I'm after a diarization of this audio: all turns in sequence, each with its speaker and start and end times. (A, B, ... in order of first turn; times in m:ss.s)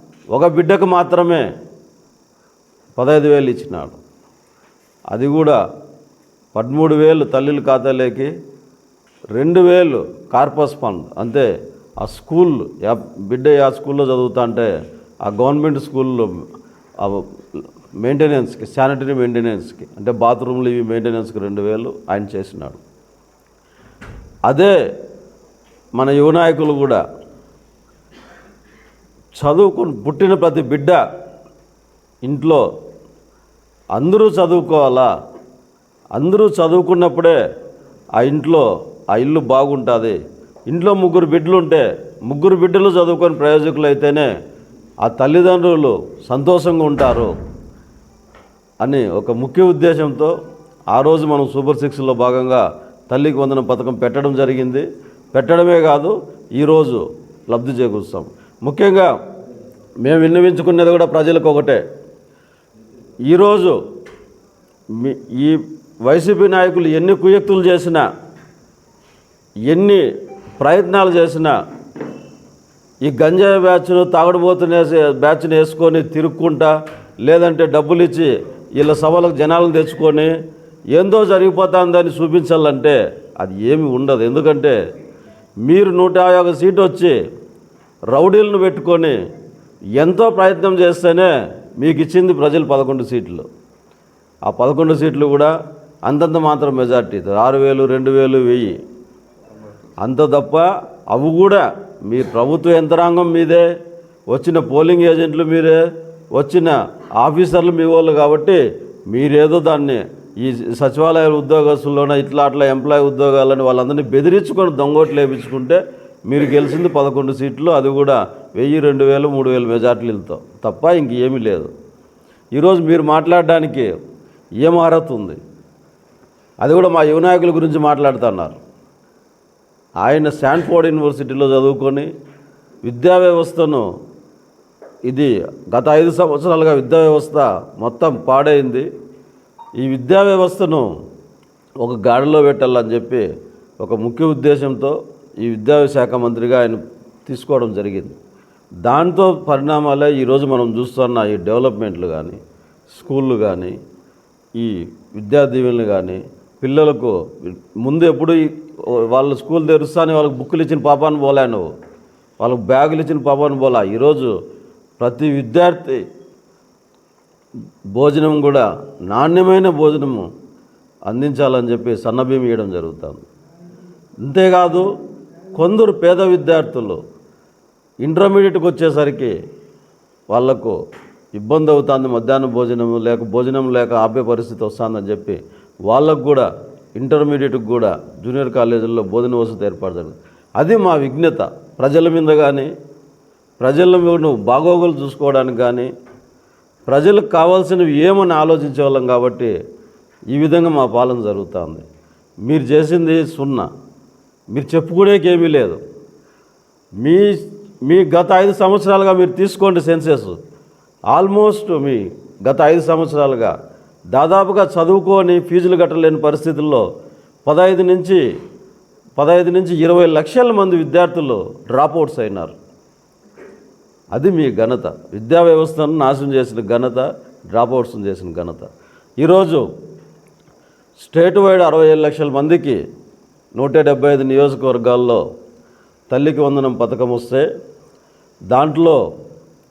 0:00.3-0:01.5 A
0:03.0-0:04.0 A
0:05.1-0:05.6 A
0:06.5-0:08.3 A
0:09.3-0:11.5 A
0:12.0-0:14.7 A
0:15.2-0:16.4 A
0:17.0-0:22.8 A
0:24.5-0:24.8 A
0:26.0-0:27.0 A
0:29.4-0:31.0 A
0:32.2-0:32.6 A
0:34.0-0:35.1 A
0:36.2-0:37.4 A
0:38.2-0:40.2 A
0:40.7-0:44.3 A
0:45.0-0:47.3 A
0:48.8-0:50.3 A
0:50.9-0:59.1 A
1:00.0-1:01.8 A
1:03.3-1:03.8 A
1:04.9-1:08.1 A
1:09.7-1:10.0 A
1:10.6-1:11.6 A
1:13.0-1:16.7 A
1:17.2-1:20.3 A
1:20.9-1:24.8 A
1:25.6-1:27.2 A
1:28.1-1:29.2 A
1:30.0-1:33.5 A
1:34.5-1:35.5 A
1:36.1-1:38.8 A
1:40.0-1:43.7 A
1:44.3-1:45.8 A
1:46.3-2:01.7 A
2:02.5-2:03.9 A
2:04.6-2:05.4 A
2:06.6-2:08.6 A
2:10.0-2:12.1 A
2:12.8-2:13.9 A
2:15.1-2:18.9 A
2:19.8-2:20.9 A
2:21.8-2:23.3 A
2:23.8-2:28.2 A
2:28.8-2:32.4 A
2:32.9-2:33.8 A
2:34.6-2:41.7 A
2:42.4-2:44.3 A
2:45.0-2:46.0 A
2:47.9-2:50.3 A
2:51.1-2:53.3 A
2:54.2-2:54.9 A
2:55.6-2:57.0 A
2:58.0-2:59.3 A
3:00.3-3:00.8 A
3:01.4-3:12.7 A
3:13.6-3:15.9 A
3:16.9-3:19.5 A
3:20.3-3:21.8 A
3:22.4-3:23.7 A
3:24.5-3:25.8 A
3:27.0-3:30.4 A
3:31.1-3:33.5 A
3:34.1-3:36.8 A
3:37.5-3:38.2 A
3:39.2-3:42.6 A
3:44.1-3:48.7 A
3:49.2-3:49.6 A
3:51.0-3:52.8 A
3:53.6-3:55.2 A
3:56.1-3:57.5 A
3:58.5-3:59.0 A